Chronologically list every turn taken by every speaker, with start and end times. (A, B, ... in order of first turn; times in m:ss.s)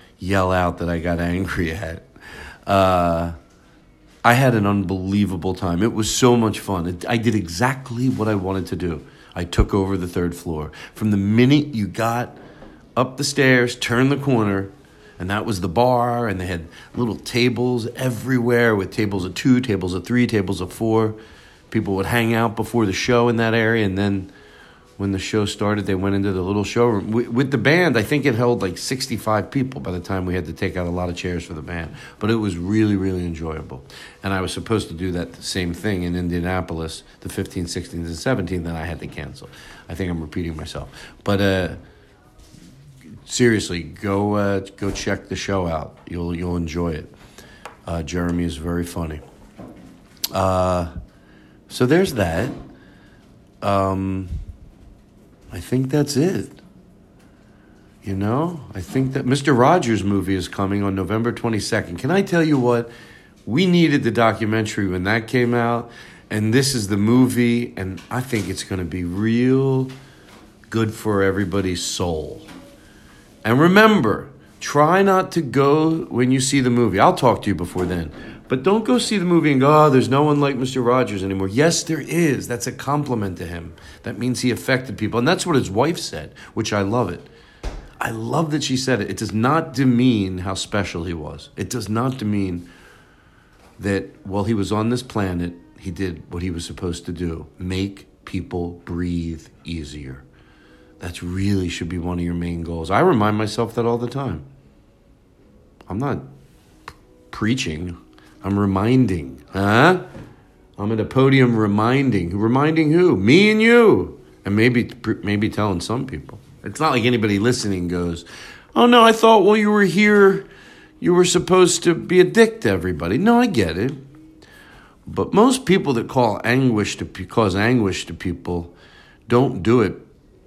0:00.2-0:02.1 A
0:02.7-0:03.4 A
0:04.2-0:12.4 A
0:13.0-0:21.2 A
0:21.7-0:24.3 A
0:25.0-0:41.8 A
0:43.3-0:47.1 A
0:47.9-0:49.2 A
0:50.3-0:50.9 A
0:51.7-0:52.6 A
0:53.6-0:54.4 A
0:55.5-0:56.6 A
0:58.0-1:02.9 A
1:03.4-1:09.9 A
1:10.7-1:12.5 A
1:13.4-1:27.3 A
1:28.0-1:32.7 A
1:33.8-1:40.2 A
1:41.0-1:44.5 A
1:45.9-1:46.3 A
1:47.3-1:50.0 A
1:50.8-2:00.5 A
2:01.0-2:04.0 A
2:05.1-2:08.7 A
2:09.3-2:10.1 A